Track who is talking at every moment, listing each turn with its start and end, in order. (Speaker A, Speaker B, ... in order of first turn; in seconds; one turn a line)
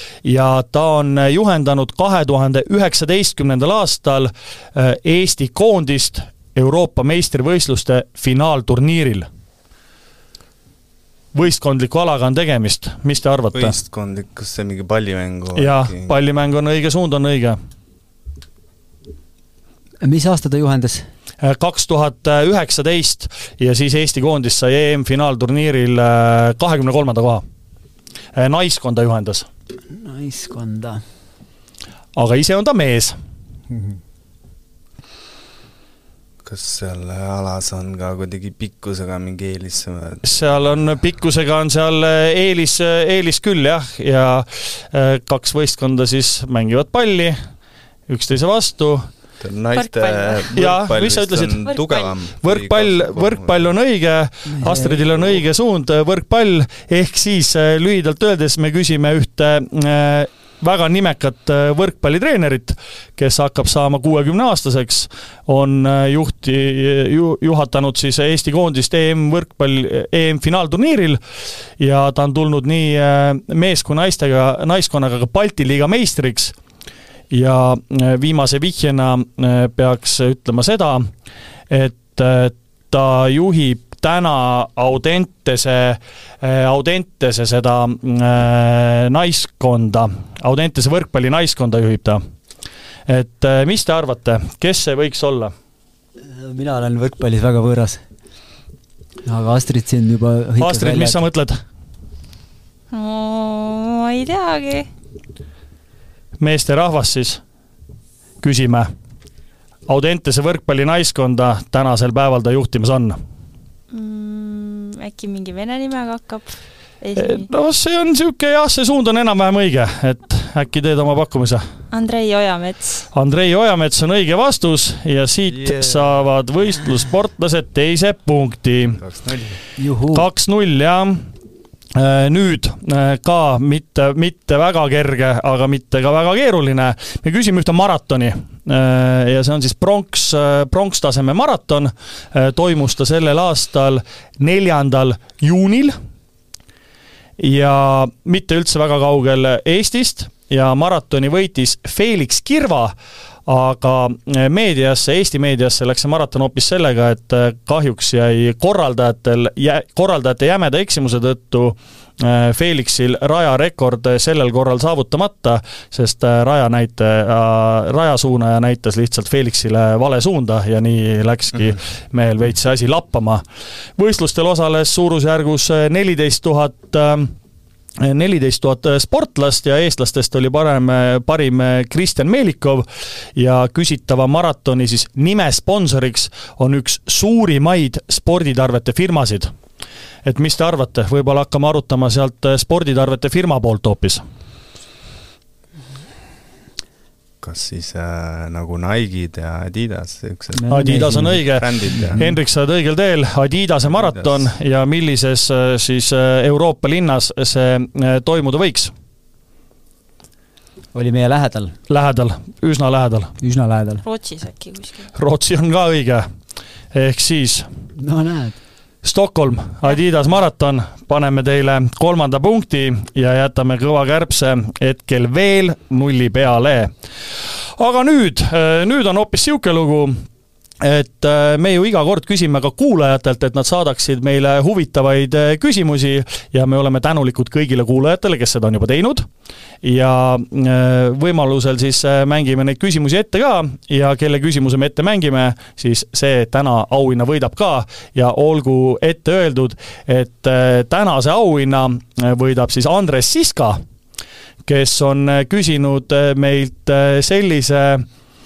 Speaker A: 0.2-9.3
Speaker A: 11.3-13.7
Speaker B: 13.5-16.1
Speaker A: 15.5-17.6
Speaker C: 20.0-21.1
Speaker A: 21.4-27.4
Speaker A: 28.3-29.5
Speaker C: 29.9-31.0
Speaker A: 32.1-33.1
Speaker C: 33.7-34.0
Speaker B: 36.4-40.4
Speaker A: 40.2-47.4
Speaker A: 48.1-49.0
Speaker B: 49.4-53.6
Speaker D: 49.7-50.5
Speaker A: 50.5-51.7
Speaker D: 51.6-52.1
Speaker A: 52.4-71.2
Speaker C: 54.5-55.0
Speaker A: 71.8-76.5
Speaker A: 77.3-81.1
Speaker A: 81.7-92.2
Speaker A: 93.1-95.5
Speaker C: 96.2-98.0
Speaker C: 99.2-101.2
Speaker A: 100.6-101.6
Speaker D: 102.9-104.9
Speaker A: 106.4-107.4
Speaker A: 108.4-108.9
Speaker A: 109.9-113.2
Speaker D: 113.9-117.5
Speaker A: 117.2-121.6
Speaker D: 121.9-123.0
Speaker A: 123.1-129.0
Speaker B: 125.5-126.1
Speaker B: 129.0-129.6
Speaker C: 129.8-130.3
Speaker A: 130.1-131.2
Speaker A: 131.9-145.9
Speaker A: 147.4-152.9
Speaker A: 153.5-173.4
Speaker A: 174.0-177.3
Speaker A: 178.0-182.8
Speaker A: 183.3-189.5
Speaker A: 190.2-194.2
Speaker B: 197.4-202.2
Speaker C: 200.5-202.4
Speaker A: 200.7-208.9
Speaker B: 203.8-204.5
Speaker C: 210.9-211.7
Speaker A: 211.9-213.3
Speaker C: 213.4-214.0
Speaker D: 214.0-215.1
Speaker A: 215.1-216.3
Speaker A: 216.9-217.7
Speaker C: 218.0-218.6
Speaker A: 219.0-226.9
Speaker A: 227.8-230.2
Speaker A: 230.8-239.2
Speaker A: 239.8-253.8
Speaker A: 254.7-258.1